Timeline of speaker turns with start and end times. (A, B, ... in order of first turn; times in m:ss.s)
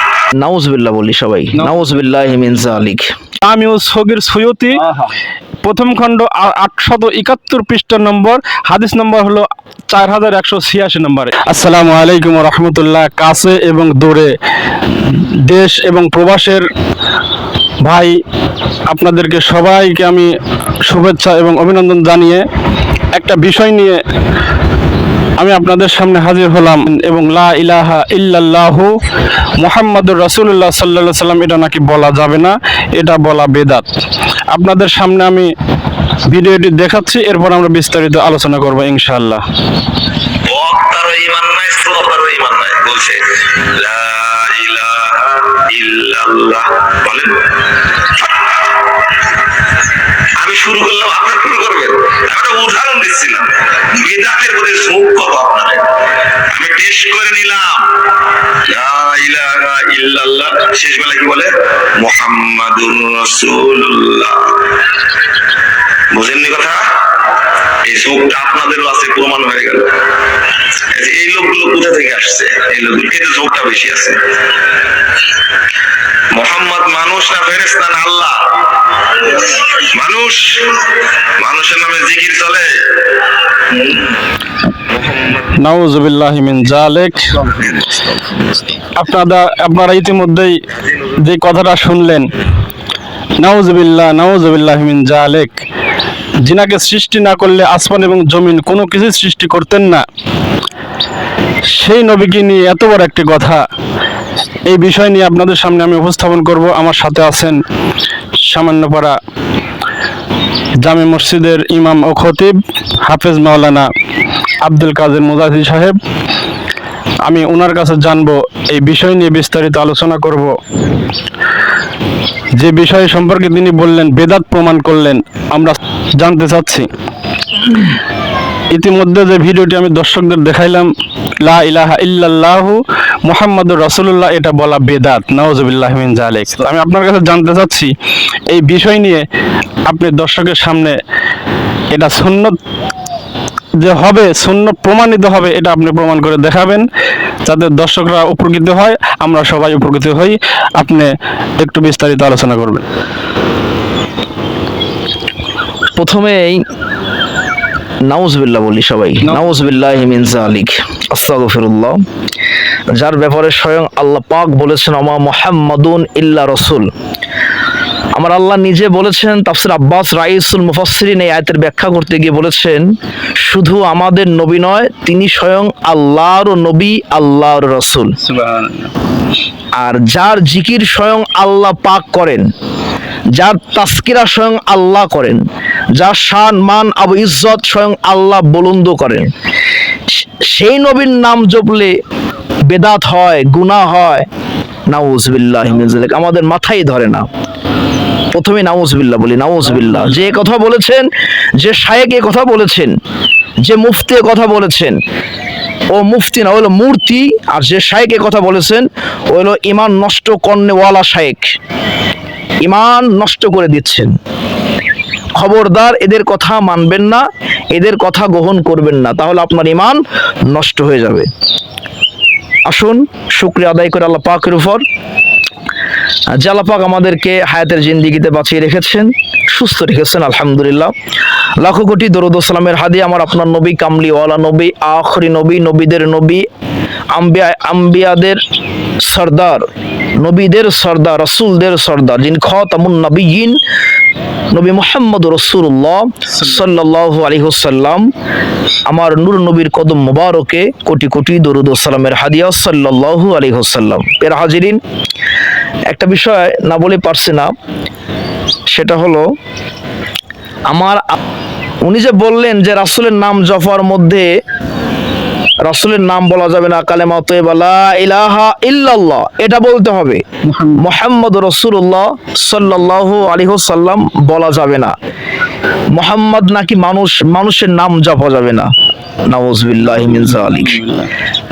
0:00.4-0:03.1 A
0:03.4-0:05.1 B
0:05.6-0:14.3 B
0:14.9-0:16.7 B
0:17.8-0:18.2 B
0:18.9-0:20.3 B
0:20.8-0:22.4 B
0:23.1-0:24.0 B
0:25.4-0:28.9 B
0:29.6-0:33.9 B
0:34.5-0:35.5 B
0:36.3-0:39.4 B
0:40.5-0:47.5 C
0:48.2-0:48.7 C
0:50.4-0:55.9 C
0:56.5-0:58.0 C
0:58.6-1:04.7 C
1:06.1-1:07.0 C
1:07.8-1:10.0 C
1:10.9-1:14.3 C
1:16.3-1:24.1 C
1:25.0-1:25.4 C
1:25.6-1:27.4 B
1:27.4-1:28.6 C
1:29.0-1:30.6 B
1:31.1-1:32.3 B
1:33.4-1:35.6 B
1:36.4-1:40.0 B
1:41.7-1:43.6 B
1:44.7-1:47.6 B
1:48.4-1:49.2 B
1:50.8-1:53.9 B
1:54.6-1:56.0 B
1:57.2-2:00.5 B
2:02.6-2:06.9 B
2:07.6-2:08.0 B
2:08.7-2:10.9 B
2:11.4-2:17.9 B
2:18.5-2:19.2 B
2:19.9-2:21.0 B
2:21.9-2:22.6 B
2:23.8-2:26.8 B
2:27.5-2:32.8 B
2:36.0-2:36.6 A
2:38.1-2:42.0 A
2:43.0-2:46.9 A
2:48.2-2:52.9 A
2:53.4-2:58.1 A
2:58.2-2:58.9 B
2:59.8-3:02.5 A
3:03.4-3:05.4 A
3:06.0-3:09.3 A
3:10.1-3:12.0 A
3:12.7-3:14.3 A
3:14.9-3:17.2 A
3:18.3-3:21.1 A
3:21.6-3:23.0 A
3:23.6-3:25.0 A
3:25.9-3:31.5 A
3:32.6-3:34.1 A
3:35.4-3:41.3 A
3:42.7-3:44.8 A
3:46.4-3:50.9 A
3:51.6-3:56.5 A
3:57.1-3:58.4 A
3:59.0-3:59.7 A
4:00.2-4:03.6 A
4:04.5-4:08.1 A
4:08.9-4:14.8 A
4:15.9-4:17.5 A
4:18.7-4:19.2 A
4:20.7-4:21.2 A
4:21.8-4:24.3 A
4:25.6-4:30.2 A
4:30.5-4:30.8 B
4:30.8-4:34.9 A
4:35.9-4:38.7 A
4:39.3-4:40.8 A
4:40.1-4:41.1 B